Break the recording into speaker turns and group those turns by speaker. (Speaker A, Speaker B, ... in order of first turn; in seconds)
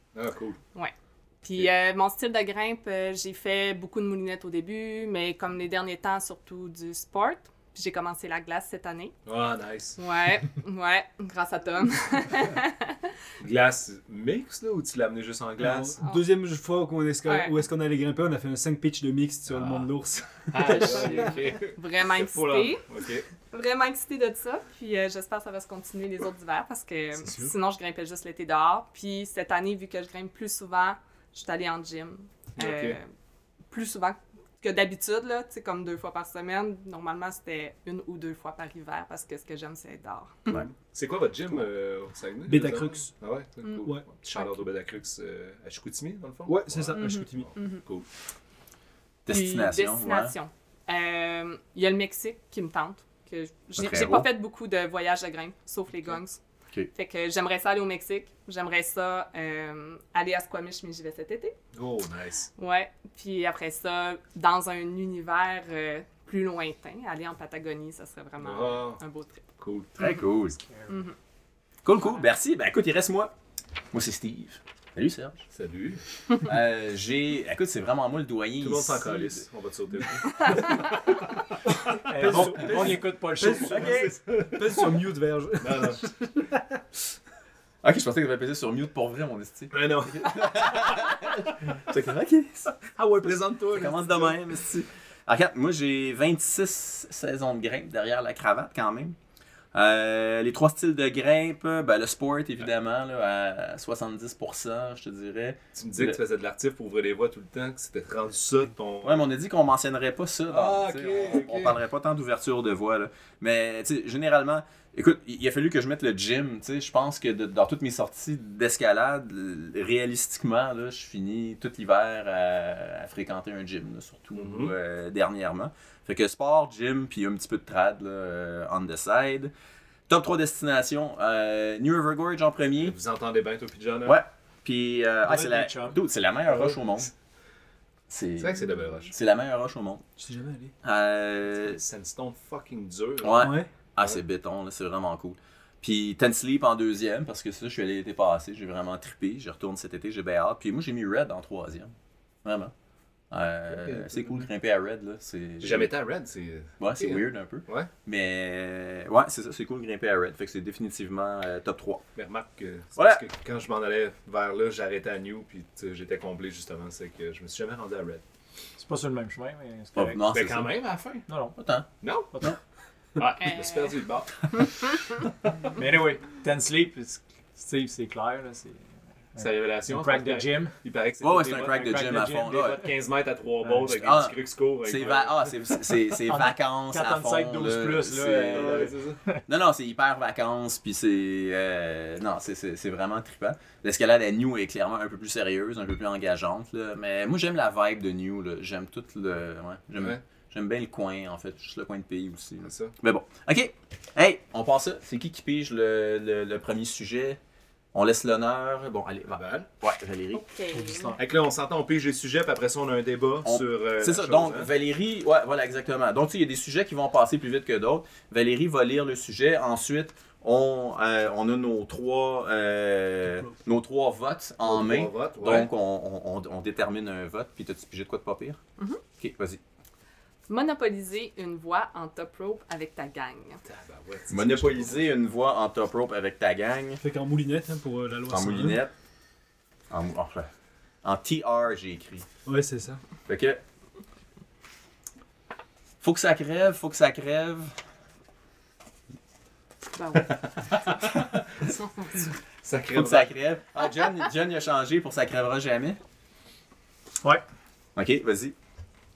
Speaker A: 0.1-0.6, 9.3-10.0, 13.4-16.0, 19.5-19.9, 20.5-23.3, 32.6-33.0, 40.5-48.1, 61.7-62.5, 68.4-69.0, 69.6-70.0, 75.5-76.0, 78.6-81.5, 82.2-82.5, 84.1-85.0, 85.6-86.0, 89.7-91.1, 93.0-94.4, 105.8-109.2, 110.5-111.8, 124.4-124.7, 132.8-134.2, 138.4-139.1, 141.6-144.2, 153.7-154.5, 155.6-157.9, 162.2-168.2, 170.3-171.3, 172.0-172.3, 173.2-174.8, 179.4-185.4, 188.5-189.2, 202.6-202.9, 209.3-209.7, 211.2-214.7, 224.7-225.7, 233.6-235.0, 252.6-253.3
Speaker B: 0.8-9.2, 10.0-13.0, 16.0-16.3, 17.2-17.5, 20.6-22.9, 23.5-33.1, 33.7-40.6, 47.0-47.8, 49.3-56.4, 56.9-61.5, 62.6-69.5, 70.9-71.2, 72.0-72.2, 173.4-173.9, 210.3-211.1, 230.5-233.6, 249.9-250.4, 251.6-252.3
Speaker C: 15.6-21.3, 27.2-27.5, 42.5-43.1, 46.5-47.5, 82.0-86.8, 93.0-93.4, 140.2-140.7, 143.3-143.7, 237.0-238.8, 242.5-243.0
Speaker D: 49.3-50.4, 53.8-54.3, 70.0-70.6, 71.8-73.3, 73.9-75.4, 76.4-79.5, 83.7-84.2, 87.8-92.8, 93.7-99.2, 99.7-106.2, 109.0-129.5, 130.1-133.0, 134.0-137.1, 138.1-140.1, 140.8-141.8, 143.2-151.9, 152.4-152.7, 153.3-155.9, 156.8-162.0, 163.0-163.2, 170.0-170.8, 171.6-171.9, 181.2-182.8, 183.9-188.9, 189.5-207.4, 207.9-210.4, 213.4-228.6, 229.2-229.6, 234.3-237.0, 238.3-238.9, 239.9-240.5, 241.0-242.3, 243.3-243.6, 246.0-247.8, 252.9-256.0, 258.0-258.6
Speaker E: 70.7-70.9, 82.1-84.0, 135.3-136.0, 168.8-170.3, 171.3-171.6, 175.8-180.8, 181.7-182.7, 183.6-183.9, 186.2-189.4, 210.7-211.2